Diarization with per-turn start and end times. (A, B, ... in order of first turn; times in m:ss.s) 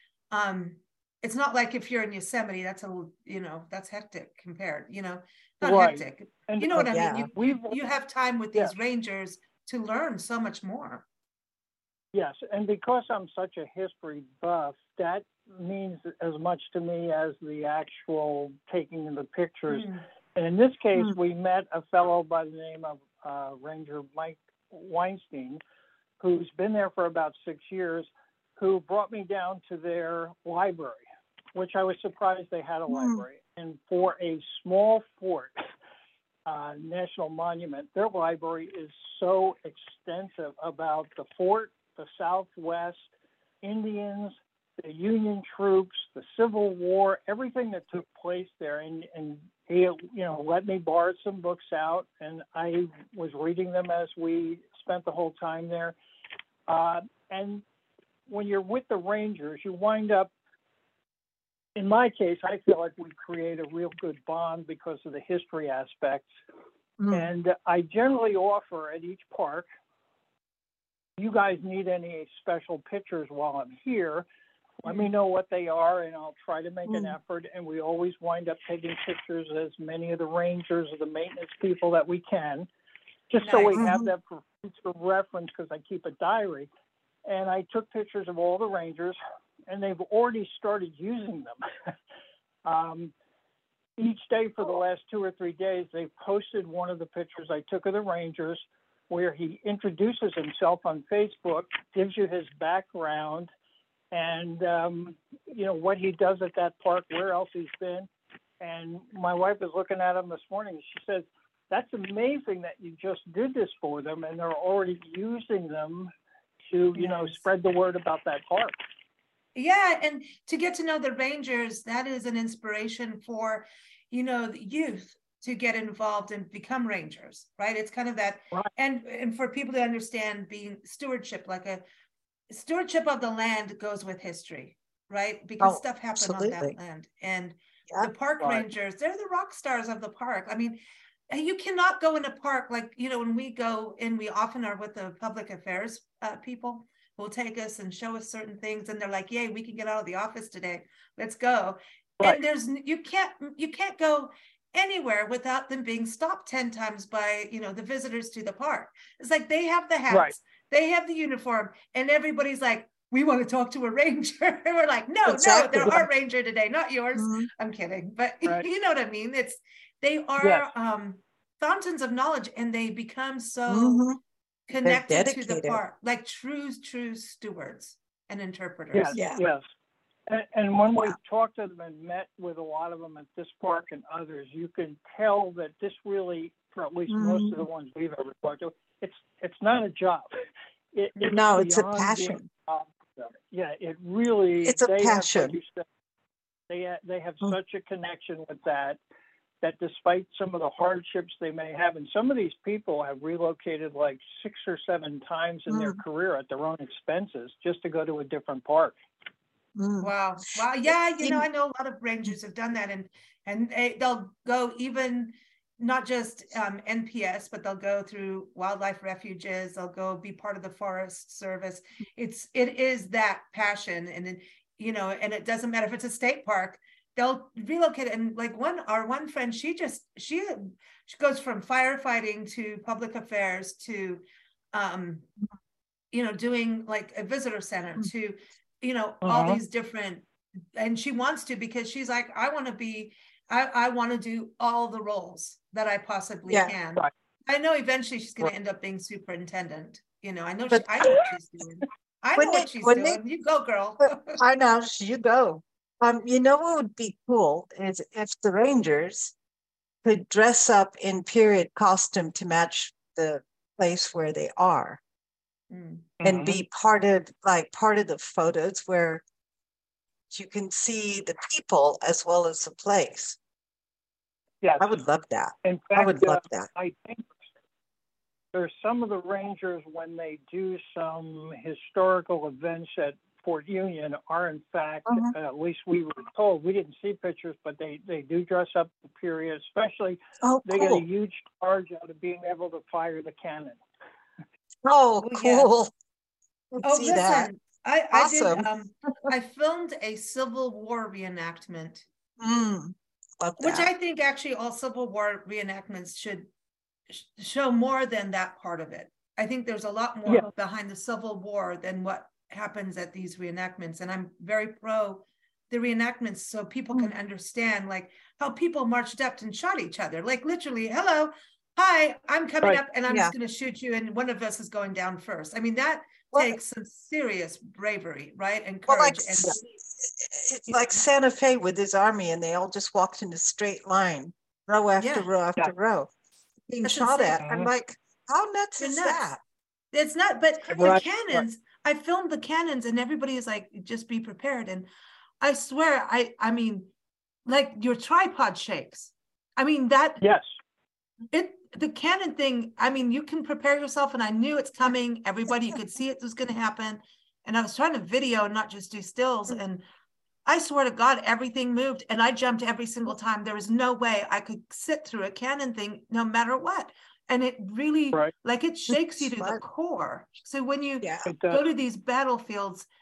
0:00.3-0:11.0 A
0:05.6-0:07.8 B
0:06.7-0:07.3 C
0:12.1-0:25.6 B
0:19.7-0:20.0 A
0:26.2-0:35.5 B
0:32.9-0:33.2 C
0:36.4-0:43.1 B
0:43.6-0:56.0 B
0:56.7-0:57.6 B
0:58.3-1:00.3 B
1:01.8-1:06.3 B
1:07.0-1:07.3 C
1:07.1-1:09.7 B
1:11.2-1:14.3 B
1:14.8-1:22.7 B
1:16.9-1:17.1 C
1:23.3-1:26.7 B
1:23.4-1:23.8 A
1:23.7-1:24.1 C
1:27.2-1:31.6 B
1:32.6-1:33.1 B
1:34.0-1:43.5 B
1:44.1-1:48.1 B
1:48.6-1:56.1 B
1:56.7-1:58.7 B
1:59.5-2:11.8 A
2:12.5-2:20.8 A
2:15.6-2:16.7 C
2:21.3-2:54.0 A
2:45.2-2:46.0 C
2:47.2-2:47.5 C
2:50.4-2:50.7 B
2:53.7-2:54.2 C
2:54.7-2:59.2 A
2:54.8-2:55.8 C
2:58.9-2:59.6 B
2:59.1-2:59.4 C
3:00.3-3:10.3 B
3:07.1-3:07.6 C
3:10.9-3:15.8 B
3:11.3-3:12.5 C
3:14.6-3:15.6 C
3:16.7-3:19.0 B
3:19.6-3:29.0 B
3:25.7-3:26.0 C
3:29.8-3:30.1 C
3:30.0-3:54.2 A
3:54.7-3:55.3 A
3:56.1-4:14.4 A
3:59.2-3:59.6 B
4:06.5-4:06.7 C
4:10.7-4:11.1 C
4:12.4-4:13.2 C
4:14.0-4:19.3 C
4:20.0-4:25.0 C
4:25.7-4:26.1 A
4:26.2-4:26.6 B
4:26.2-4:29.2 C
4:30.3-4:33.4 C
4:34.6-4:34.9 B
4:34.8-4:36.7 C
4:35.6-4:37.4 B
4:38.5-4:53.8 B
4:45.1-4:45.3 C
4:50.4-4:51.0 C
4:54.8-4:55.9 C
4:55.2-4:55.7 A
4:56.7-4:57.5 C
4:56.8-5:02.0 A
4:58.1-4:58.7 C
5:02.4-5:03.9 C
5:03.6-5:06.5 A
5:07.1-5:29.6 A
5:23.1-5:23.3 C
5:28.9-5:36.1 C
5:35.0-5:35.2 A
5:36.7-5:39.4 C
5:36.8-5:37.4 A
5:37.4-5:37.7 B
5:38.8-5:39.2 A
5:39.9-5:44.9 A
5:40.8-5:41.4 B
5:45.4-5:46.9 A
5:47.4-5:50.2 A
5:50.2-5:50.5 B
5:51.3-5:59.8 A
6:00.4-6:12.9 A
6:08.9-6:09.6 C
6:11.0-6:11.3 C
6:11.2-6:11.6 B